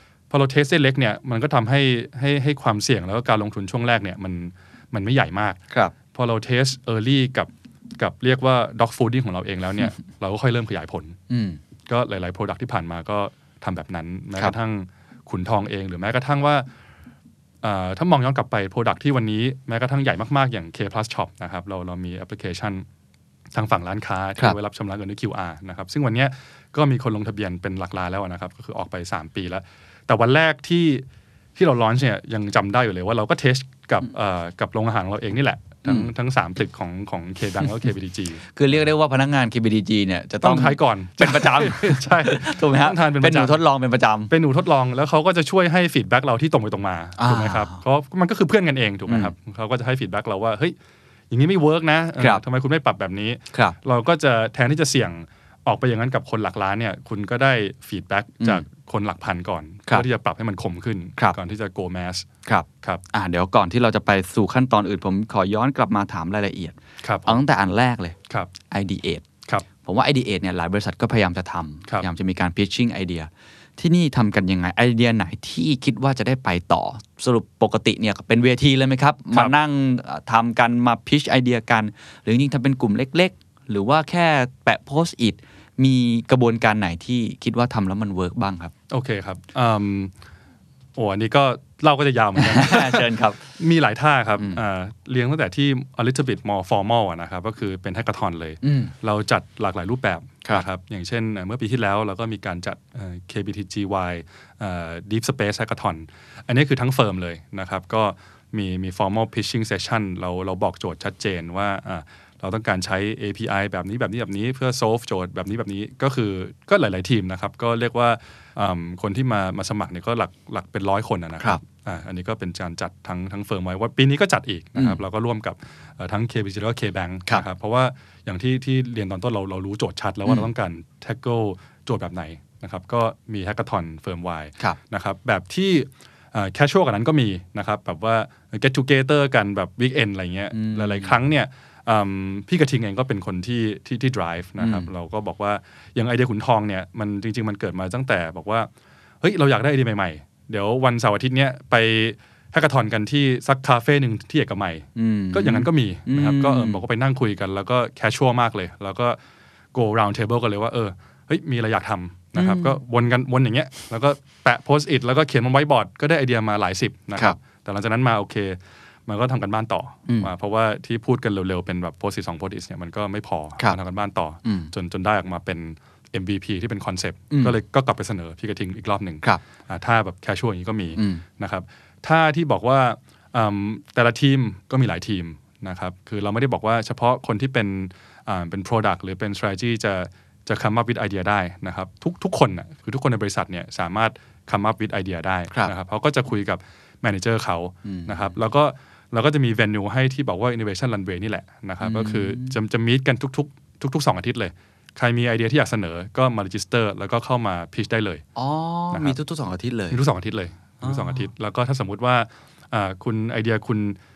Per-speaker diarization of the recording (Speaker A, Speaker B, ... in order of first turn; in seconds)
Speaker A: 0.3-5.6, 6.1-11.2, 11.9-16.6, 17.6-22.8, 23.5-31.0, 31.6-38.5, 40.4-43.6, 44.3-50.7, 51.3-62.3, 67.0-67.4, 88.9-90.1, 91.0-148.7, 149.2-159.2, 159.7-208.2, 208.9-209.2, 209.9-214.0
Speaker B: 11.3-11.6, 35.8-36.1, 38.5-44.3, 47.2-47.8, 49.1-49.3, 62.5-68.2, 68.7-69.2, 69.8-88.7, 92.4-93.4, 98.6-98.9, 140.5-141.1, 144.6-144.9, 154.9-156.8, 162.3-162.8, 174.4-174.7, 177.3-177.6, 180.9-181.2, 197.8-198.3, 201.8-202.6, 208.3-210.0, 210.8-211.3